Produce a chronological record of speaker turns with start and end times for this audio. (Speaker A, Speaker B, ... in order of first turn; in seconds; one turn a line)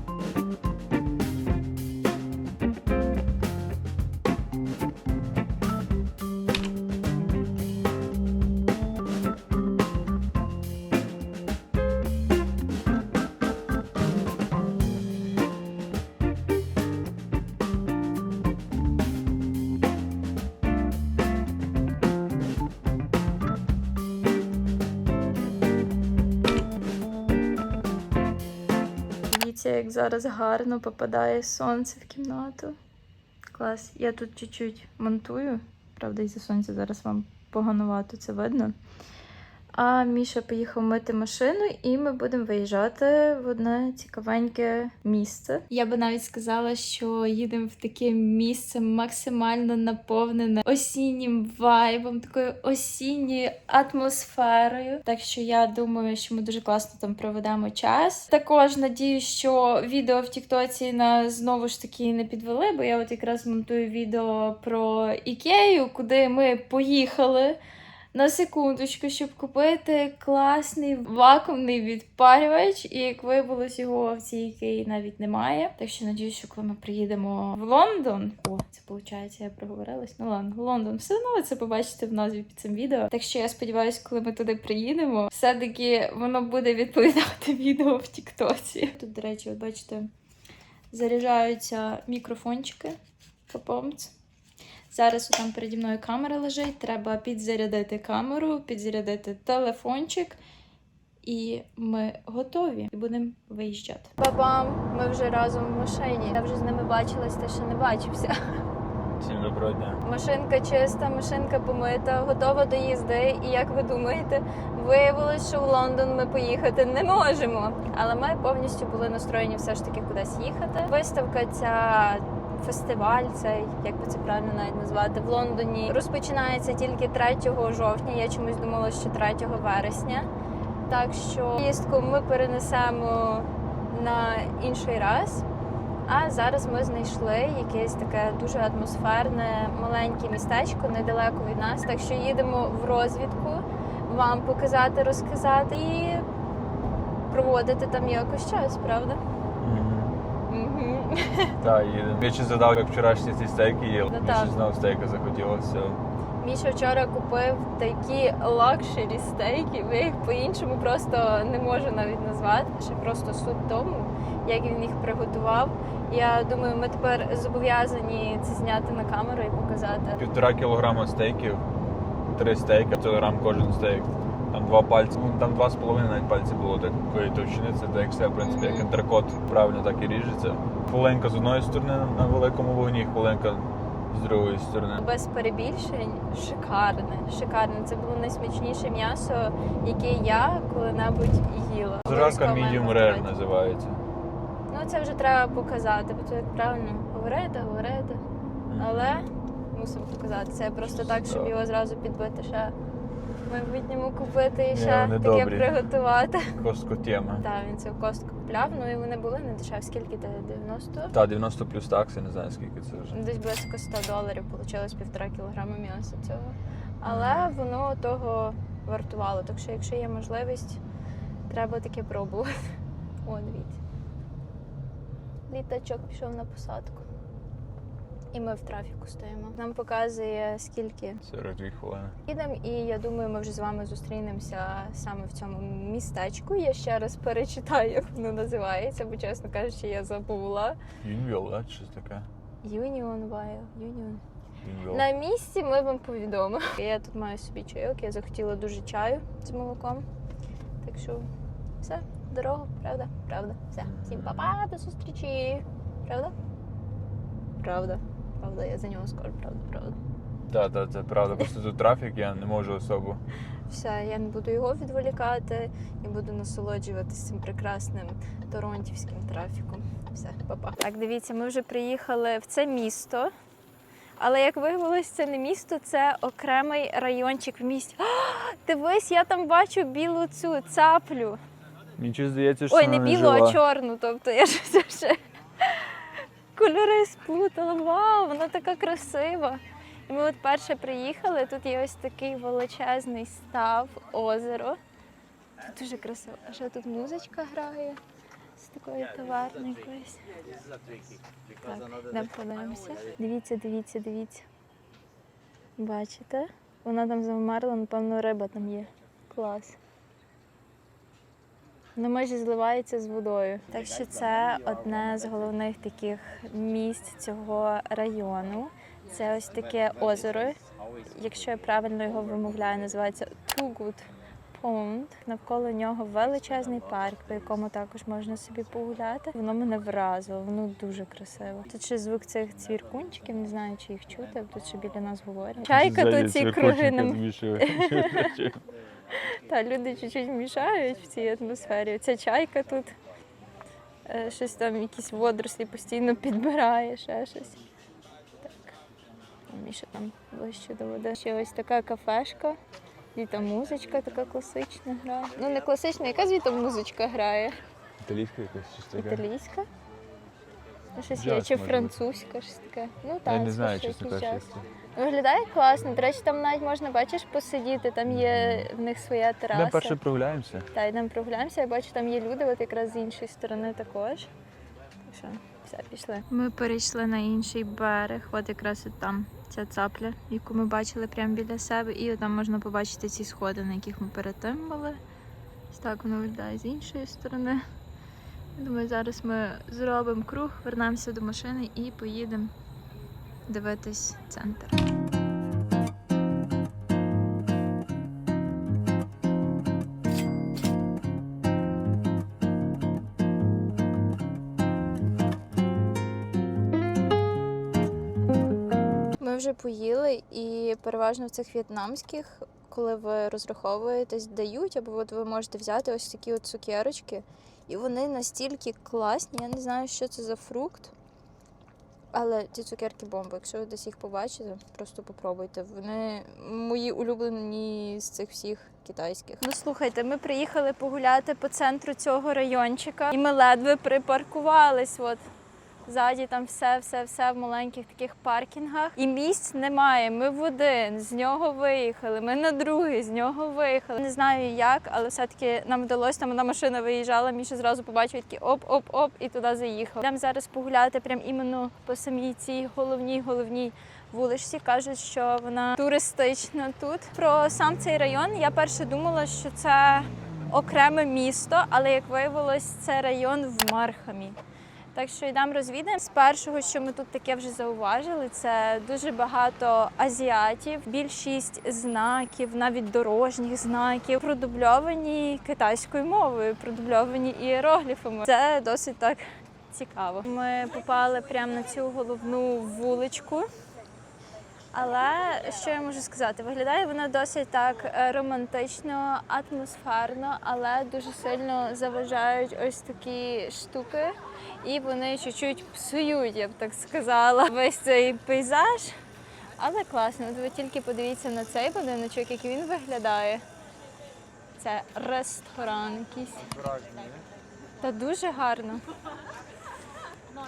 Speaker A: 29.3-32.8
Speaker A: 33.5-38.8
Speaker A: 39.8-67.6
Speaker A: 68.1-90.1
Speaker A: 90.9-93.0
Speaker A: 93.5-94.1
Speaker A: 94.9-100.4
Speaker A: 101.2-108.6
Speaker B: 109.2-110.0
Speaker A: 110.0-130.3
Speaker A: 130.9-135.4
Speaker A: 136.1-146.2
Speaker A: 147.3-149.2
Speaker B: 149.6-150.2
Speaker A: 150.5-151.6
Speaker B: 151.6-156.0
Speaker A: 154.1-154.6
Speaker A: 156.4-170.2
Speaker B: 170.2-171.6
Speaker B: 172.3-185.0
Speaker A: 178.4-178.9
Speaker A: 185.0-193.3
Speaker B: 192.0-194.0
Speaker A: 194.7-198.2
Speaker B: 198.7-199.2
Speaker A: 198.8-202.8
Speaker B: 200.8-201.5
Speaker A: 203.5-206.5
Speaker B: 204.7-205.8
Speaker B: 206.6-207.4
Speaker A: 207.4-211.1
Speaker B: 211.1-213.2
Speaker A: 213.1-220.8
Speaker B: 217.1-217.5
Speaker A: 221.5-222.7
Speaker A: 223.2-223.8
Speaker A: 225.5-227.1
Speaker A: 228.3-231.2
Speaker B: 231.2-232.2
Speaker A: 232.3-240.8
Speaker B: 241.0-242.3
Speaker A: 242.6-244.2
Speaker B: 244.6-245.1
Speaker A: 244.9-250.1
Speaker A: 250.8-251.3
Speaker A: 251.8-256.3
Speaker B: 253.8-254.6
Speaker A: 257.6-260.0
Speaker B: 260.5-263.2
Speaker A: 263.7-273.3
Speaker A: 274.2-281.4
Speaker B: 282.0-283.6
Speaker A: 282.7-294.8
Speaker A: 295.6-298.0
Speaker A: 298.6-300.2
Speaker A: 301.5-304.4
Speaker A: 305.8-309.8
Speaker A: 311.9-338.4
Speaker B: 335.7-338.6
Speaker A: 339.1-342.9
Speaker A: 344.1-347.6
Speaker A: 348.4-348.8
Speaker A: 349.5-352.6
Speaker A: 353.1-357.6
Speaker B: 358.0-359.2
Speaker A: 359.0-359.7
Speaker A: 360.9-370.0
Speaker B: 361.1-361.9
Speaker B: 363.2-364.6
Speaker B: 368.1-368.7
Speaker B: 369.5-370.7
Speaker A: 370.7-374.3
Speaker A: 375.1-385.0
Speaker A: 385.7-387.6
Speaker A: 388.6-392.5
Speaker A: 393.5-394.8
Speaker A: 409.2-420.9
Speaker A: 422.1-435.2
Speaker A: 435.9-464.4
Speaker A: 464.9-483.5
Speaker A: 484.7-499.0
Speaker A: 499.6-503.4
Speaker A: 504.6-506.5
Speaker A: 507.8-508.8